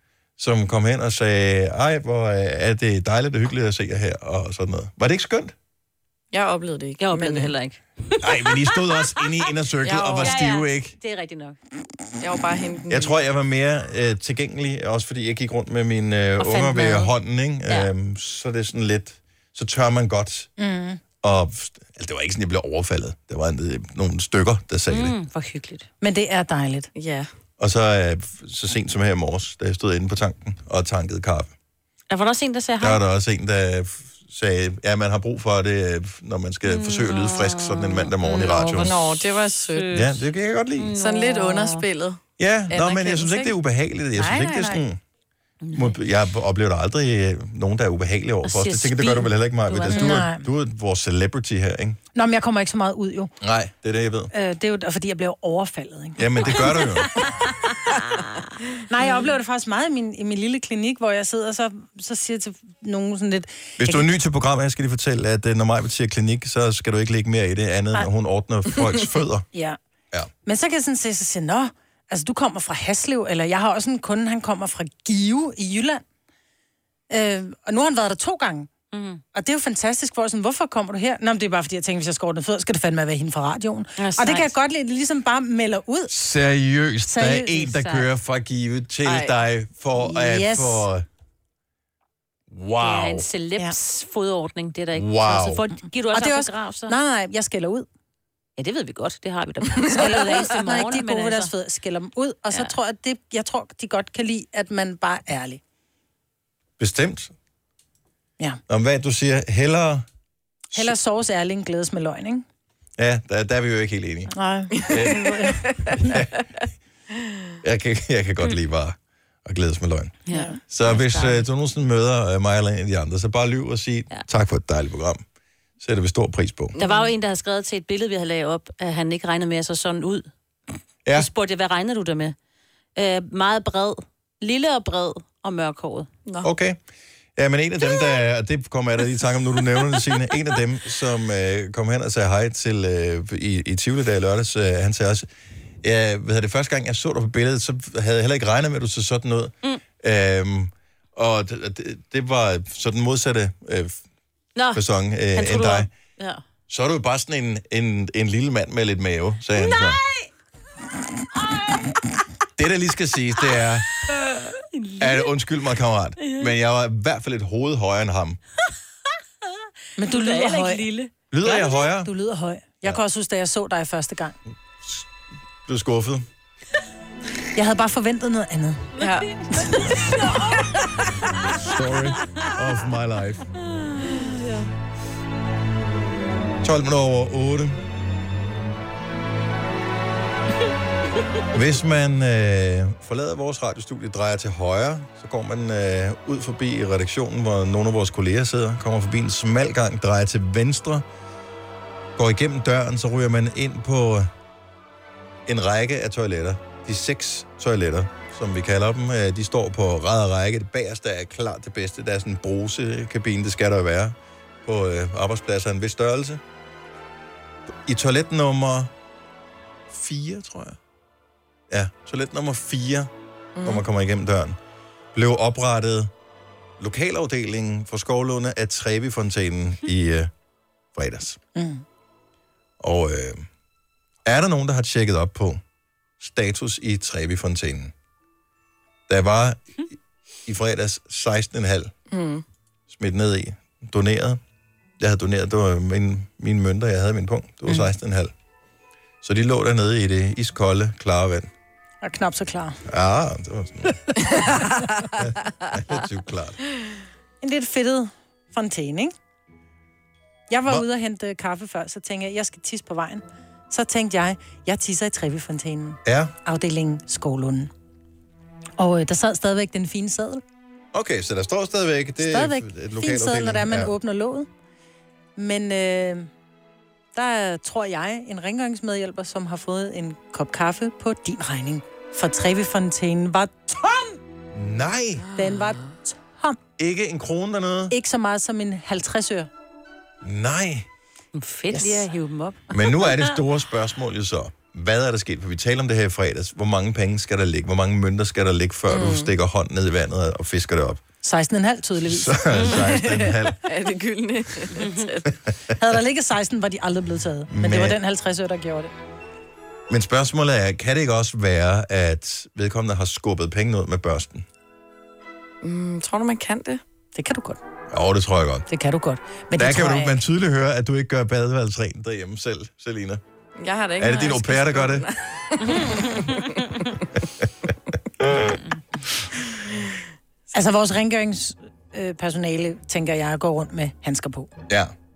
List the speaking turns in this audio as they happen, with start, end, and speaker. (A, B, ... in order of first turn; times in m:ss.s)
0:00.4-0:05.5 A
0:06.3-0:07.5 B
0:07.0-0:09.4 C
0:08.2-0:10.9 A
0:09.8-0:10.4 B
0:10.1-0:11.6 C
0:12.2-0:13.1 B
0:12.9-0:20.5 A
0:16.4-0:17.1 C
0:20.6-0:21.0 D
0:21.2-0:25.1 A
0:24.9-0:25.9 C
0:26.0-0:26.9 D
0:26.9-0:27.3 B
0:27.6-0:31.5 A
0:32.1-0:33.0 C
0:32.8-0:39.0 A
0:36.6-0:40.2 C
0:38.8-0:40.0 B
0:39.9-0:40.9 A
0:40.8-0:41.8 C
0:41.0-0:43.5 B
0:42.4-0:45.0 A
0:44.2-0:44.6 D
0:45.6-0:46.0 C
0:45.7-0:52.0 A
0:48.4-0:50.3 C
0:49.9-0:50.4 D
0:52.1-0:53.3 D
0:53.4-0:54.3 A
0:54.3-0:56.8 D
0:56.2-0:57.1 A
0:58.9-1:04.0 D
1:03.8-1:09.4 A
1:09.5-1:09.8 D
1:10.4-1:16.0 D
1:17.1-1:18.7 D
1:18.9-1:19.2 C
1:19.3-1:26.1 D
1:24.0-1:24.5 C
1:26.1-1:31.0 A
1:27.1-1:27.9 D
1:29.0-1:29.3 B
1:30.0-1:30.9 D
1:32.5-1:33.3 A
1:32.8-1:36.9 C
1:34.9-1:35.6 A
1:36.1-1:37.8 D
1:38.6-1:41.5 C
1:39.9-1:45.6 D
1:46.8-1:47.3 A
1:48.7-1:50.0 A
1:50.7-1:52.4 D
1:53.0-1:54.3 A
1:54.3-1:56.1 D
1:54.8-1:55.9 B
1:54.9-1:56.4 A
1:57.6-2:00.2 A
2:00.3-2:01.5 C
2:00.3-2:00.6 D
2:00.7-2:05.2 A
2:05.8-2:06.8 A
2:06.7-2:07.1 B
2:06.8-2:10.3 C
2:11.1-2:12.3 C
2:13.0-2:16.1 C
2:16.4-2:16.8 A
2:17.4-2:25.3 A
2:25.8-2:34.0 A
2:34.6-2:34.8 C
2:34.7-2:35.9 A
2:35.3-2:36.4 C
2:36.7-2:40.0 A
2:39.6-2:40.3 C
2:42.6-2:43.9 A
2:44.1-2:45.3 C
2:45.0-2:48.4 A
2:46.2-2:46.5 C
2:50.0-2:50.8 D
2:50.0-2:51.1 C
2:51.3-2:52.1 A
2:51.4-2:54.3 D
2:54.8-2:55.1 A
2:55.6-2:56.3 A
2:57.5-2:58.8 D
2:59.0-3:00.6 C
2:59.0-2:59.3 B
3:01.5-3:03.5 A
3:04.0-3:04.6 C
3:06.6-3:07.8 A
3:11.5-3:21.0 A
3:22.2-3:24.3 A
3:25.5-3:36.4 A
3:37.8-3:38.9 A
3:39.9-3:40.8 A
3:41.7-3:43.1 A
3:43.6-3:43.8 B
3:43.6-3:44.6 A
3:45.1-3:46.1 A
3:46.8-3:50.3 A
3:50.9-3:51.4 A
3:51.5-3:51.8 D
3:52.8-3:53.5 A
3:54.2-3:55.6 A
3:56.2-3:57.9 A
3:59.1-3:59.9 A
4:00.4-4:01.9 A
4:02.1-4:02.4 B
4:02.9-4:04.4 A
4:05.0-4:08.3 A
4:09.2-4:11.5 A
4:12.0-4:12.8 D
4:12.8-4:14.0 A
4:15.1-4:16.6 A
4:17.4-4:19.1 D
4:20.5-4:27.7 D
4:26.0-4:26.3 A
4:28.8-4:30.4 D
4:30.9-4:33.9 A
4:32.2-4:34.5 D
4:35.4-4:36.3 D
4:37.1-4:44.2 D
4:44.5-4:45.2 A
4:45.4-4:46.6 D
4:46.8-4:47.9 A
4:47.9-4:49.5 D
4:50.2-4:50.9 A
4:51.3-4:53.2 C
4:51.7-4:52.1 D
4:52.7-5:01.0 A
4:58.9-4:59.3 B
5:01.2-5:02.7 D
5:02.0-5:03.6 A
5:03.0-5:05.3 B
5:04.8-5:05.1 C
5:05.8-5:08.9 D
5:07.5-5:08.0 A
5:09.9-5:14.4 A
5:15.6-5:16.8 B
5:17.1-5:17.6 D
5:17.9-5:18.7 A
5:18.7-5:20.2 D
5:19.5-5:23.2 A
5:23.6-5:26.9 B
5:24.0-5:25.1 A
5:30.5-5:34.5 D